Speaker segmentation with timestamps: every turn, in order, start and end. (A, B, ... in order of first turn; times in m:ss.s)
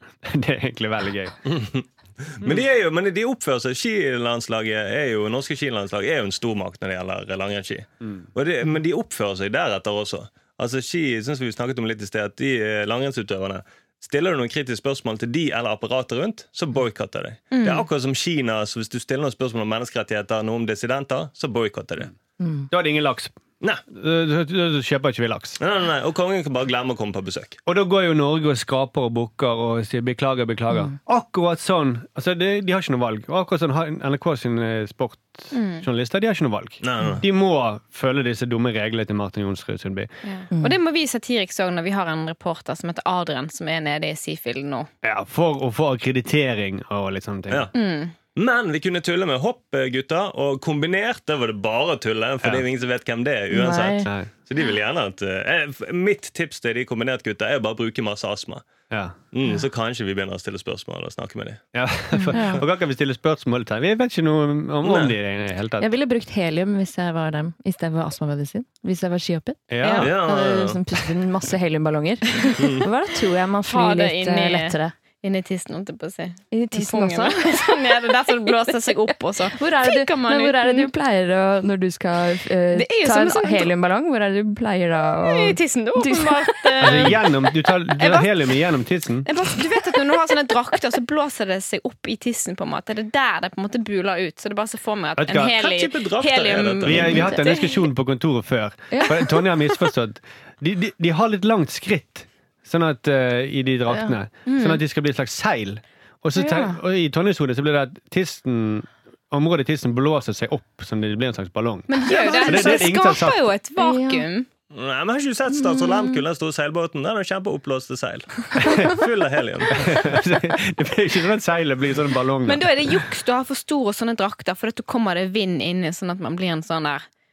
0:00.2-0:01.4 A
0:01.4-0:22.1 B
0:17.5-0:17.9 C
0:22.4-0:22.7 D
0:22.7-0:23.4 A
0:23.9-0:25.6 A
0:25.6-0:27.6 B
0:27.6-0:40.1 A
0:35.5-0:35.8 C
0:36.8-0:37.2 B
0:40.2-0:44.9 C
0:45.0-0:47.7 A
0:47.7-0:48.1 C
0:48.3-0:58.6 B
0:53.5-0:54.1 D
0:58.9-0:59.2 A
0:59.3-1:01.6 B
1:01.7-1:05.9 A
1:02.3-1:02.6 D
1:04.8-1:05.1 B
1:05.8-1:09.6 D
1:09.7-1:10.2 A
1:09.8-1:10.1 C
1:10.0-1:10.8 B
1:10.1-1:14.9 D
1:12.6-1:12.9 B
1:13.7-1:20.9 C
1:16.5-1:17.8 D
1:19.5-1:27.1 D
1:22.7-1:23.7 C
1:25.2-1:27.3 C
1:26.8-1:29.3 A
1:28.0-1:28.6 C
1:29.2-1:37.9 C
1:35.2-1:35.5 A
1:35.5-1:37.3 B
1:36.8-1:53.4 A
1:38.9-1:39.2 D
1:44.4-1:44.8 C
1:46.4-1:46.8 D
1:51.9-1:54.5 C
1:53.8-1:54.2 D
1:54.7-2:00.1 B
1:55.5-1:56.2 D
1:58.6-1:58.9 A
1:59.7-2:03.0 A
2:02.4-2:07.0 C